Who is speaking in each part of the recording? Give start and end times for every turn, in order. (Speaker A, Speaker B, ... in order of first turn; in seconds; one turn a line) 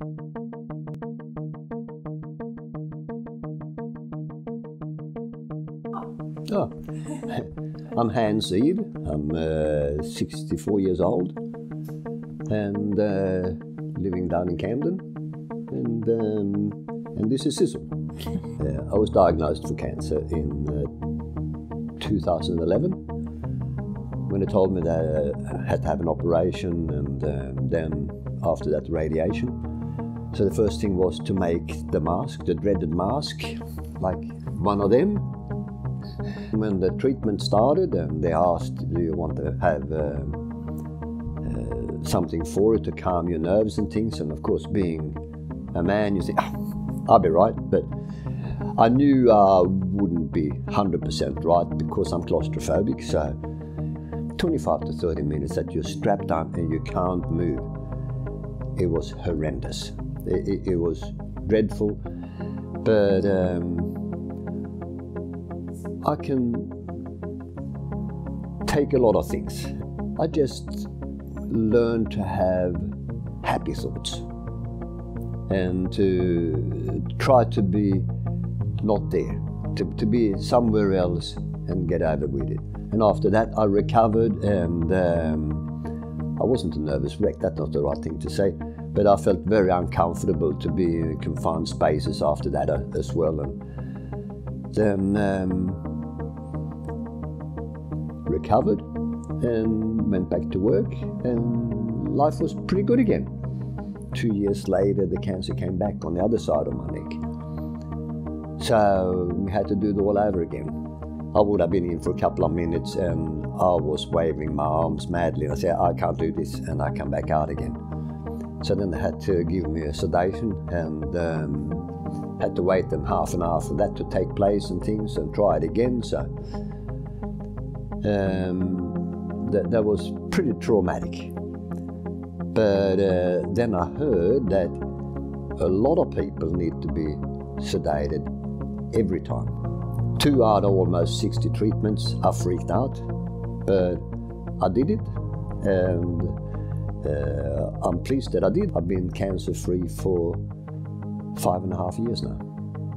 Speaker A: 6.5-11.4
Speaker A: 12.5-15.1
Speaker A: 15.7-17.9
Speaker A: 18.5-20.9
Speaker A: 22.0-23.0
Speaker A: 24.3-29.6
Speaker A: 30.3-35.3
Speaker A: 36.5-40.5
Speaker A: 41.4-45.2
Speaker A: 45.7-46.5
Speaker A: 47.0-47.9
Speaker A: 48.7-53.4
Speaker A: 54.4-57.7
Speaker A: 58.8-62.0
Speaker A: 62.8-64.0
Speaker A: 66.0-66.8
Speaker A: 68.6-70.9
Speaker A: 71.5-74.2
Speaker A: 75.5-78.1
Speaker A: 78.8-85.7
Speaker A: 86.4-93.6
Speaker A: 94.7-95.8
Speaker A: 98.2-98.8
Speaker A: 99.4-103.3
Speaker A: 104.1-107.2
Speaker A: 108.6-110.8
Speaker A: 111.3-117.8
Speaker A: 118.6-126.3
Speaker A: 128.0-131.3
Speaker A: 132.5-134.8
Speaker A: 135.6-138.3
Speaker A: 138.9-139.6
Speaker A: 140.2-143.1
Speaker A: 143.7-144.0
Speaker A: 144.6-146.4
Speaker A: 147.0-150.4
Speaker A: 151.3-152.4